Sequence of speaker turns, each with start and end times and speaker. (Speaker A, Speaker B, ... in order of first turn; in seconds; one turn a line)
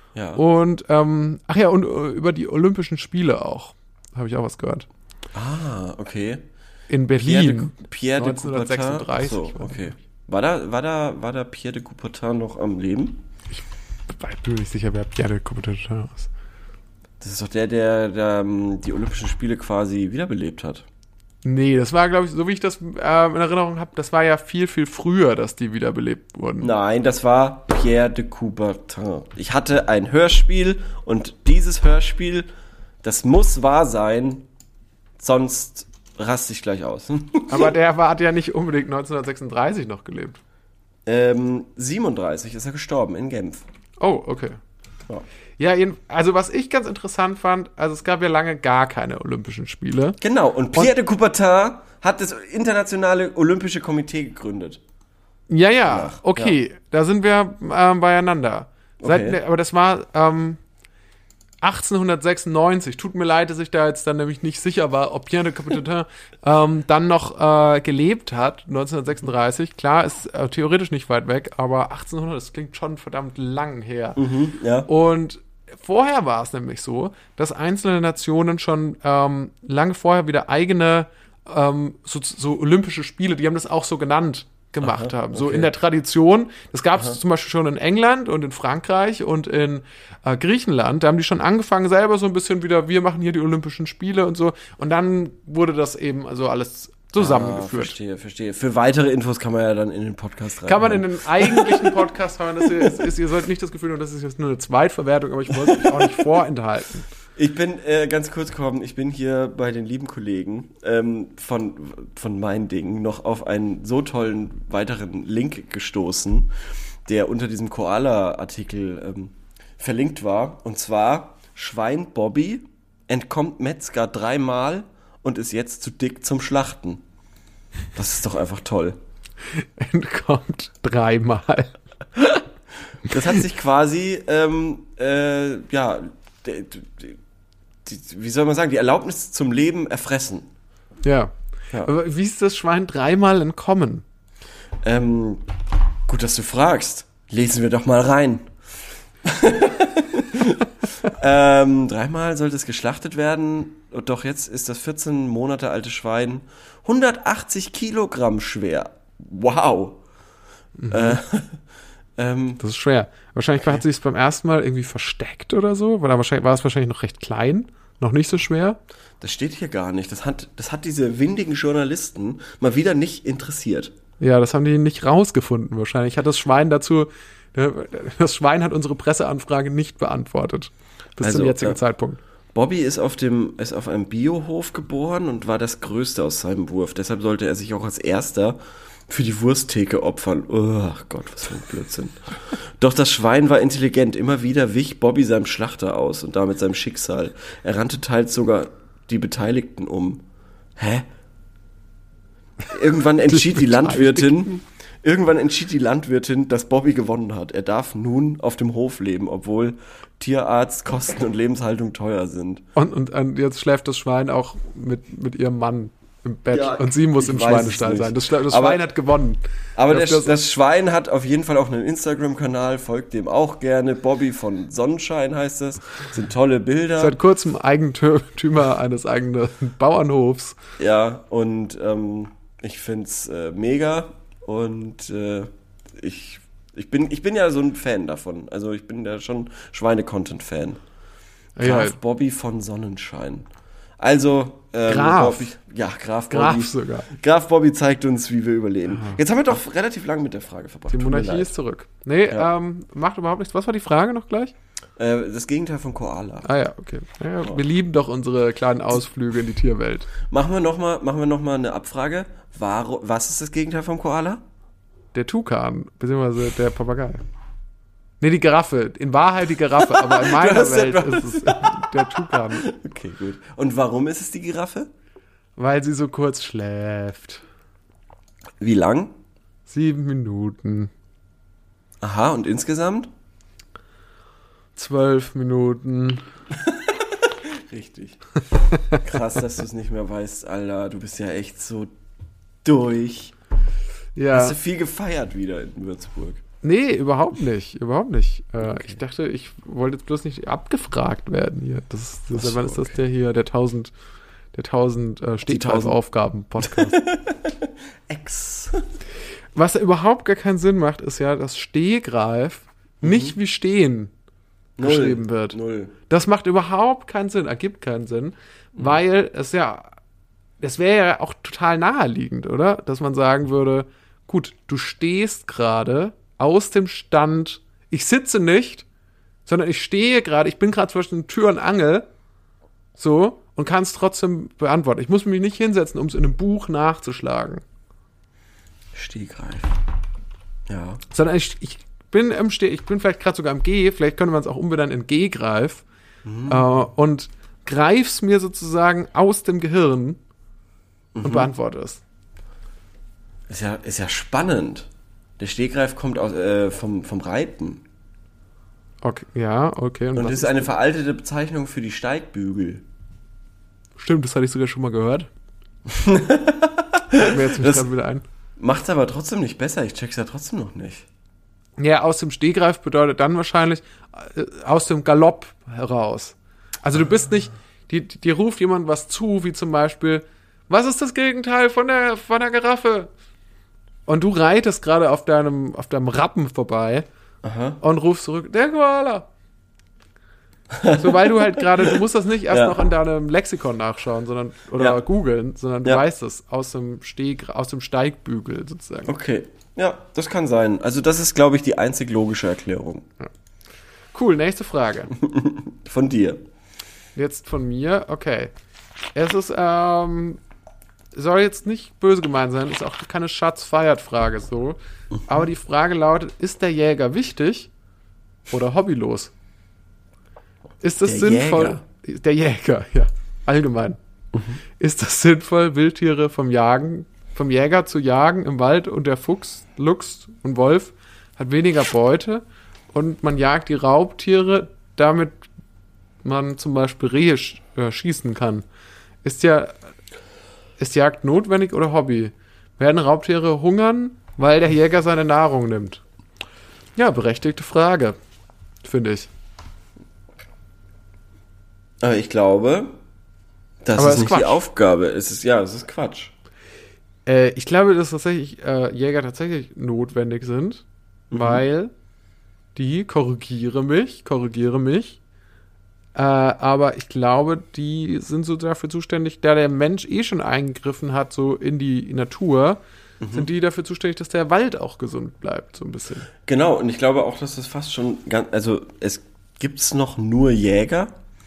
Speaker A: 0.1-0.4
Speaker B: 0.3-4.9
Speaker A: 5.3-6.4
Speaker B: 6.9-10.0
Speaker A: 7.2-13.2
Speaker B: 13.5-16.3
Speaker A: 17.2-20.9
Speaker B: 21.4-26.7
Speaker A: 26.6-32.5
Speaker A: 33.0-34.5
Speaker A: 35.2-37.7
Speaker B: 37.5-40.4
Speaker A: 41.0-43.6
Speaker B: 44.0-44.6
Speaker B: 45.6-50.2
Speaker A: 50.2-54.8
Speaker B: 55.5-60.6
Speaker A: 55.9-56.5
Speaker A: 59.0-59.4
Speaker B: 61.6-74.2
Speaker A: 74.2-74.9
Speaker B: 74.8-98.0
Speaker A: 84.8-85.7
Speaker A: 97.2-102.1
Speaker B: 100.6-107.1
Speaker A: 102.6-103.1
Speaker A: 105.6-106.2
Speaker A: 107.3-116.5
Speaker A: 117.0-127.0
Speaker A: 127.9-129.0
Speaker B: 129.5-131.8
Speaker A: 133.0-137.2
Speaker A: 137.8-140.5
Speaker B: 141.0-144.0
Speaker A: 144.8-145.5
Speaker A: 146.1-148.5
Speaker A: 149.2-160.0
Speaker B: 160.8-161.2
Speaker A: 160.9-161.6
Speaker A: 162.2-162.6
Speaker B: 162.6-168.8
Speaker A: 169.2-173.9
Speaker B: 174.2-182.2
Speaker A: 181.2-181.8
Speaker A: 182.5-200.2
Speaker A: 200.8-201.1
Speaker A: 202.7-212.6
Speaker B: 203.2-204.5
Speaker B: 212.8-220.3
Speaker A: 216.5-218.8
Speaker A: 219.8-227.2
Speaker B: 227.0-230.6
Speaker A: 230.8-240.8
Speaker B: 241.6-242.0
Speaker A: 241.6-243.5
Speaker A: 244.0-251.6
Speaker B: 244.8-245.5
Speaker B: 246.3-247.1
Speaker B: 248.9-249.2
Speaker B: 250.9-254.5
Speaker A: 255.0-256.5
Speaker B: 256.4-260.1
Speaker A: 260.3-264.4
Speaker B: 265.1-267.2
Speaker B: 268.2-272.7
Speaker A: 269.9-274.9
Speaker B: 275.6-277.4
Speaker A: 278.6-279.1
Speaker B: 279.7-280.9
Speaker A: 282.0-283.1
Speaker B: 284.8-286.2
Speaker A: 286.5-288.2
Speaker A: 288.9-291.9
Speaker A: 292.6-293.3
Speaker B: 294.1-294.6
Speaker A: 294.3-296.4
Speaker B: 296.6-303.9
Speaker A: 298.6-299.0
Speaker A: 302.3-303.0
Speaker B: 304.5-307.0
Speaker A: 305.5-306.0
Speaker A: 306.6-308.9
Speaker B: 309.5-314.1
Speaker A: 313.0-313.4
Speaker A: 314.8-315.9
Speaker B: 314.8-319.9
Speaker B: 320.6-328.9
Speaker B: 329.4-332.1
Speaker B: 333.0-337.6
Speaker A: 338.9-339.8
Speaker A: 340.7-341.0
Speaker B: 341.1-345.8
Speaker A: 346.2-346.7
Speaker B: 346.5-350.2
Speaker A: 351.1-351.5
Speaker B: 351.2-352.0
Speaker A: 353.5-354.9
Speaker A: 355.4-357.8
Speaker B: 359.0-360.7
Speaker A: 360.1-362.8
Speaker B: 364.0-365.3
Speaker A: 365.9-367.9
Speaker B: 367.1-368.2
Speaker A: 368.6-371.1
Speaker B: 371.8-383.1
Speaker B: 384.1-387.1
Speaker A: 387.4-387.8
Speaker B: 387.8-389.3
Speaker A: 390.7-391.9
Speaker B: 390.9-399.1
Speaker A: 392.5-392.8
Speaker A: 399.1-403.1
Speaker B: 404.1-405.1
Speaker A: 405.1-406.4
Speaker B: 407.1-408.5
Speaker B: 409.1-410.4
Speaker B: 411.1-417.7
Speaker B: 418.5-419.3
Speaker B: 420.8-424.0
Speaker A: 421.0-421.8
Speaker B: 424.8-435.4
Speaker B: 436.2-438.6
Speaker B: 439.2-439.8
Speaker B: 440.8-446.0
Speaker B: 446.9-448.2
Speaker B: 448.8-449.3
Speaker A: 452.0-452.9
Speaker A: 453.8-456.3
Speaker B: 453.9-454.6
Speaker B: 457.2-461.9
Speaker A: 461.3-461.6
Speaker B: 462.7-465.2
Speaker B: 466.1-476.3
Speaker A: 473.2-473.5
Speaker A: 476.4-481.1